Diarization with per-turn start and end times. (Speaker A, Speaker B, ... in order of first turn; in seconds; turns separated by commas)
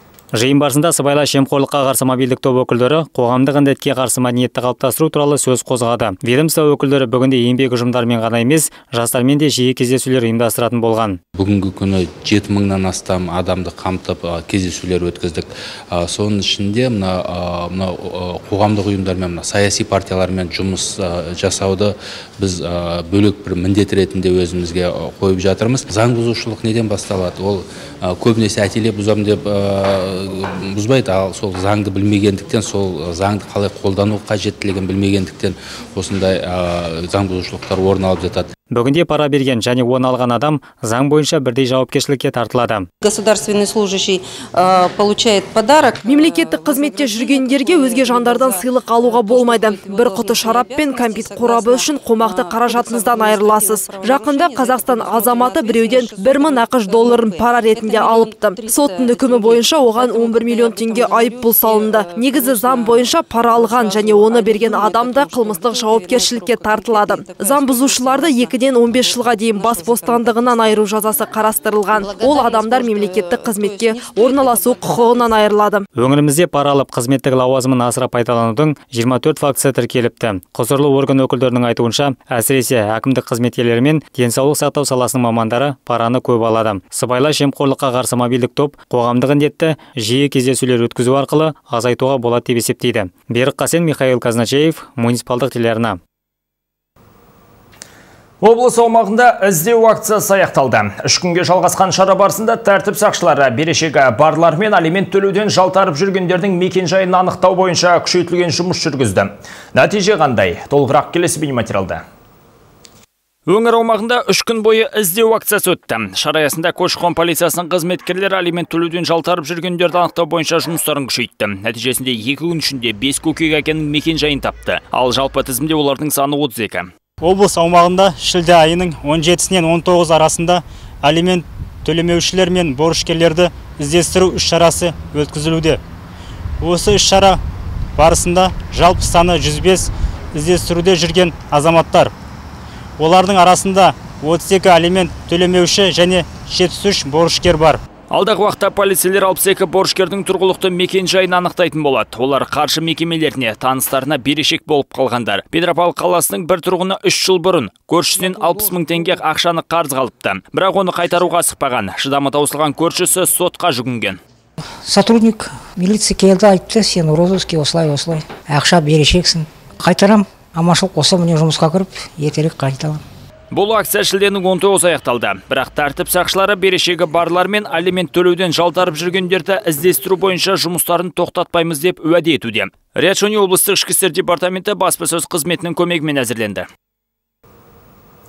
Speaker A: 0.3-11.2, Speaker B: 11.3-38.5, Speaker A: 38.7-42.9, Speaker C: 43.0-71.3, Speaker D: 46.0-75.9, Speaker C: 71.9-75.3, Speaker A: 76.0-96.0, Speaker E: 98.4-112.0, Speaker E: 113.5-126.9, Speaker F: 127.2-135.8, Speaker F: 136.6-137.4, Speaker F: 138.0-142.1, Speaker F: 143.0-147.8, Speaker E: 148.1-164.2, Speaker G: 164.8-173.0, Speaker E: 173.5-186.7